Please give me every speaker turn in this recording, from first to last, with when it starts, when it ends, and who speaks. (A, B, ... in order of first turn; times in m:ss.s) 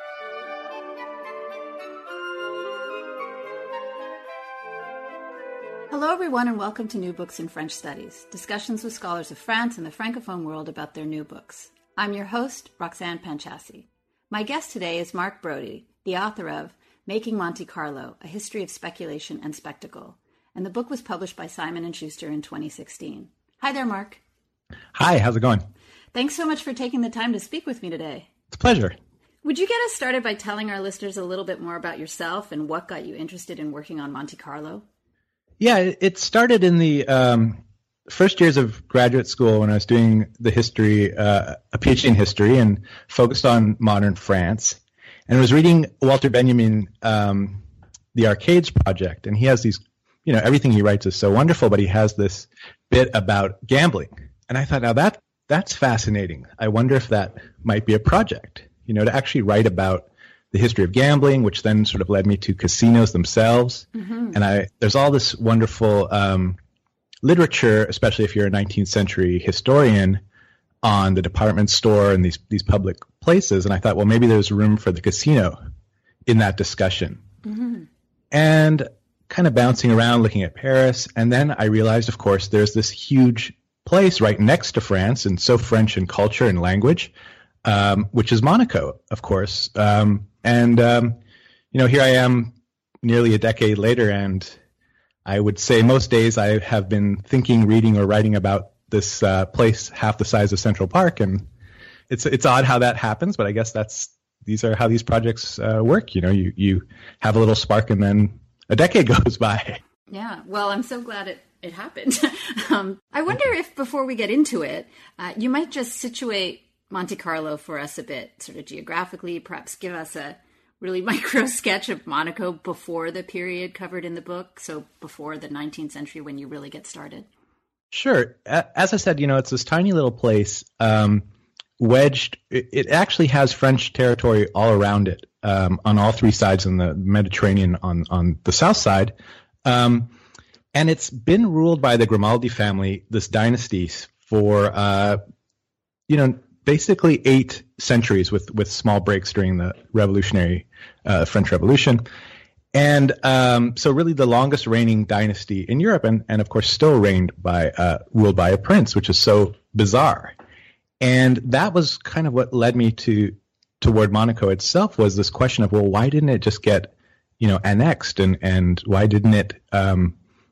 0:05.9-0:24.2 A
0:24.9-0:25.6 B
0:26.1-0:28.3 A
0:28.5-0:29.0 B
0:29.4-0:34.8 A
0:35.6-0:47.6 B
0:48.1-1:06.6 B
1:03.9-1:04.4 A
1:07.2-1:10.2 B
1:10.8-1:15.6 B
1:16.2-1:17.2 B
1:17.5-1:17.8 A
1:18.3-1:27.1 B
1:27.6-1:31.2 B
1:31.7-1:34.6 B
1:35.2-1:41.5 B
1:42.1-1:49.8 B
1:50.1-2:07.3 A
2:07.9-2:11.2 B
2:11.8-2:19.1 B
2:19.6-2:20.1 B
2:20.7-2:25.2 B
2:26.1-2:32.0 B
2:32.7-2:40.3 B
2:41.0-2:50.2 B